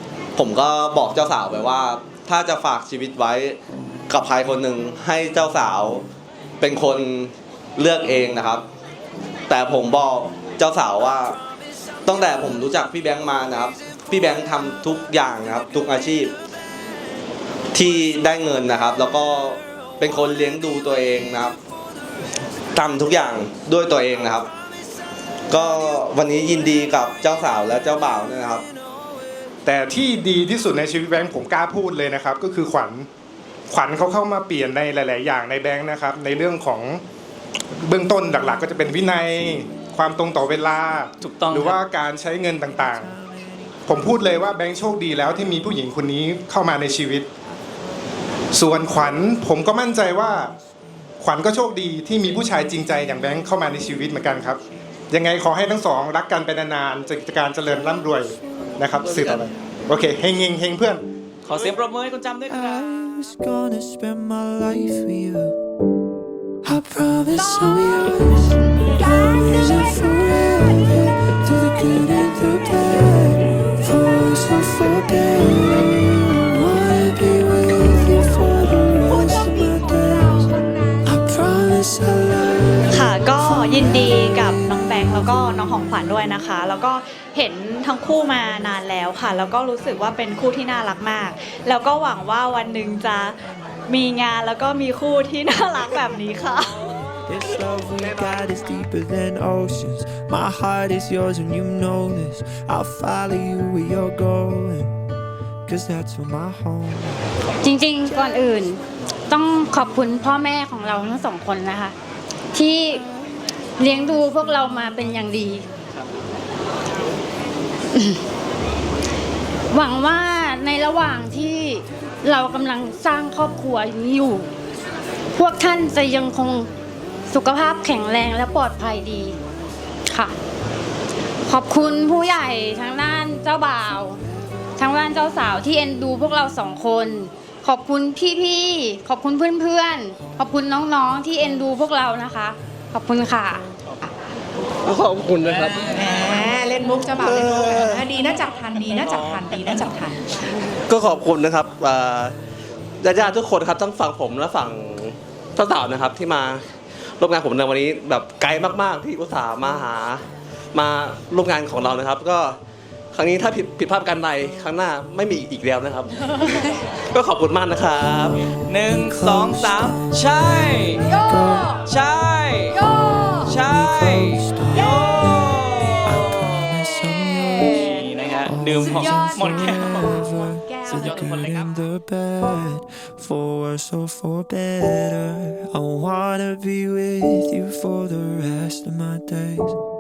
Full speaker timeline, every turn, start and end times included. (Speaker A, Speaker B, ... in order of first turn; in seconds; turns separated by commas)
Speaker A: 0.4-3.6, Speaker A: 4.1-6.0, Speaker A: 6.6-8.7, Speaker A: 9.5-11.4, Speaker A: 12.1-16.4, Speaker A: 17.7-21.6, Speaker A: 22.8-24.5, Speaker A: 25.5-28.7, Speaker B: 29.7-33.1, Speaker B: 33.7-37.0, Speaker B: 37.9-43.1, Speaker C: 41.2-41.8, Speaker D: 42.6-44.2, Speaker B: 43.9-47.3, Speaker B: 48.5-50.5, Speaker B: 51.2-54.6, Speaker B: 55.1-61.0, Speaker E: 59.0-59.5, Speaker C: 61.4-62.9, Speaker D: 62.5-65.6, Speaker D: 66.6-85.2, Speaker F: 82.9-93.4, Speaker F: 93.9-96.8, Speaker D: 97.3-105.0, Speaker E: 97.5-98.5, Speaker D: 105.7-107.3, Speaker G: 107.6-111.9, Speaker G: 112.5-113.0, Speaker G: 113.8-115.6, Speaker G: 118.0-118.2, Speaker G: 119.7-124.5, Speaker G: 125.4-126.7, Speaker G: 127.3-129.4, Speaker G: 131.5-134.2, Speaker G: 134.8-143.6, Speaker E: 144.8-146.3, Speaker H: 145.9-150.2, Speaker E: 147.1-148.1, Speaker E: 148.9-149.8, Speaker E: 150.9-152.3, Speaker E: 153.0-156.6, Speaker E: 157.2-162.6, Speaker E: 163.1-168.5, Speaker D: 168.2-171.8, Speaker C: 168.7-171.1, Speaker C: 171.8-172.8, Speaker D: 172.8-189.8, Speaker C: 173.4-176.6, Speaker C: 177.8-180.2, Speaker H: 178.9-181.2, Speaker C: 180.8-181.8